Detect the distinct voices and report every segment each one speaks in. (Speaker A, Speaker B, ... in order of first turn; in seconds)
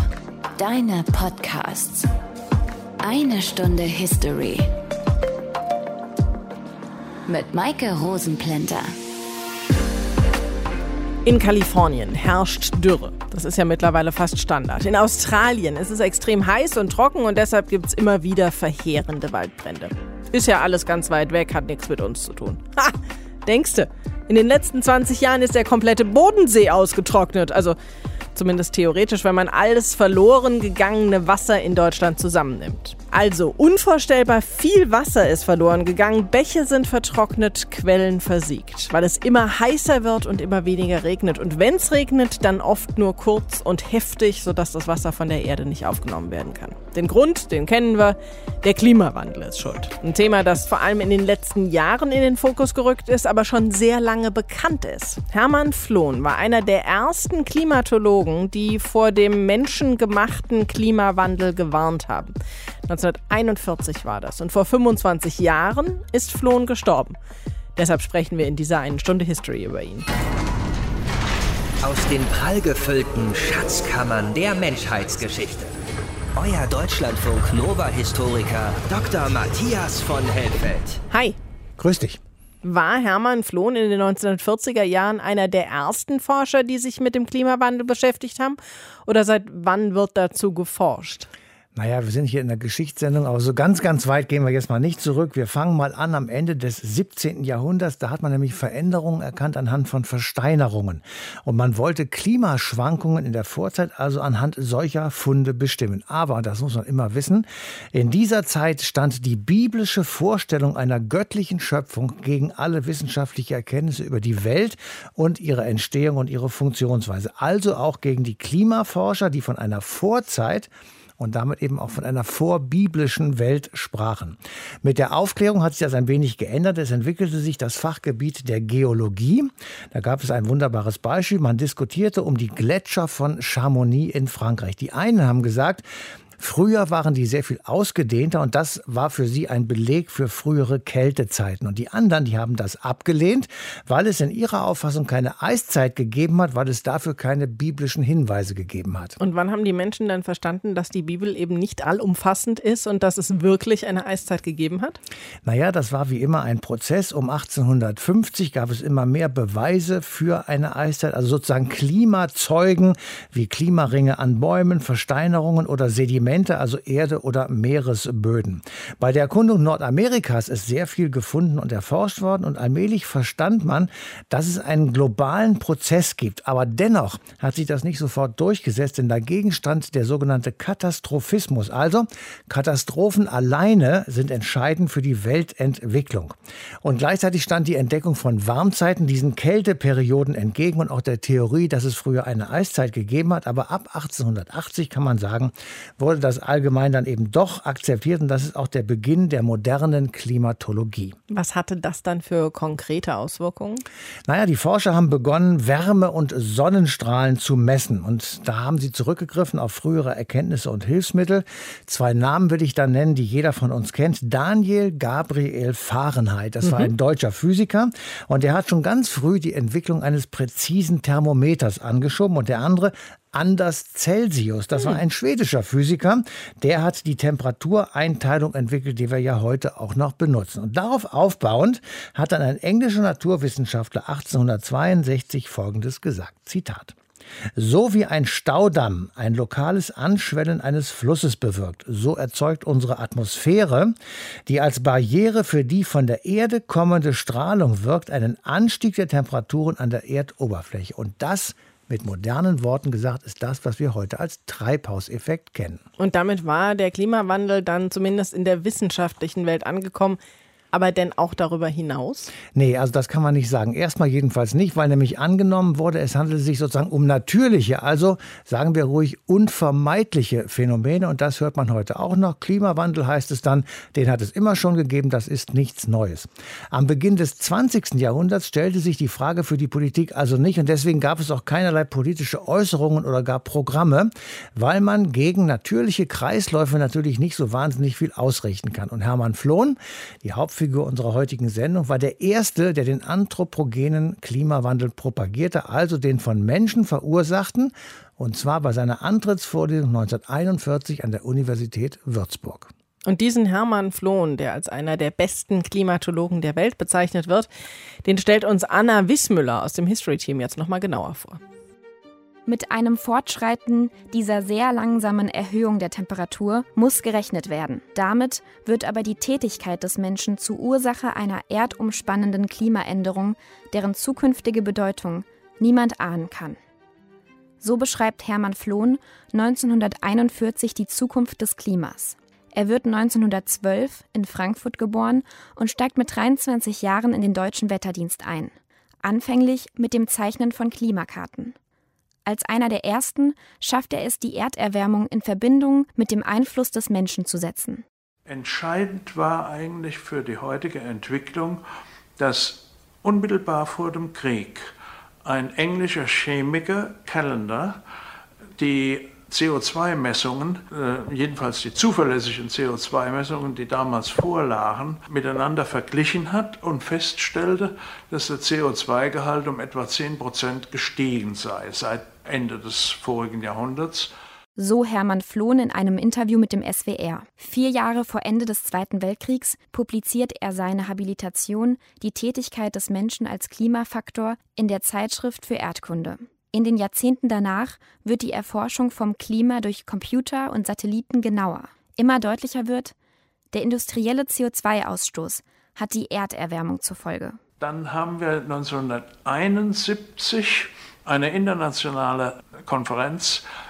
Speaker A: 0.6-2.1, 3.0-4.7, 7.3-8.9
Speaker B: 11.2-27.8, 28.4-62.4, 62.9-67.2, 67.8-70.1, 81.1-81.4, 82.6-91.3, 149.2-155.0, 201.3-203.8, 256.0-260.2, 260.7-262.3, 303.1-307.5, 308.0-311.4
Speaker C: 71.8-75.7, 76.4-81.0
Speaker D: 81.8-82.2, 91.8-135.8, 136.4-149.2, 155.4-201.2, 204.3-237.0, 237.6-243.9, 244.5-255.8, 262.5-302.7
Speaker E: 312.5-326.6, 327.6-341.6, 342.2-347.9, 374.6-392.9, 393.5-397.4
Speaker F: 348.3-351.6, 352.2-354.7, 355.2-357.8, 358.6-374.1, 397.6-403.4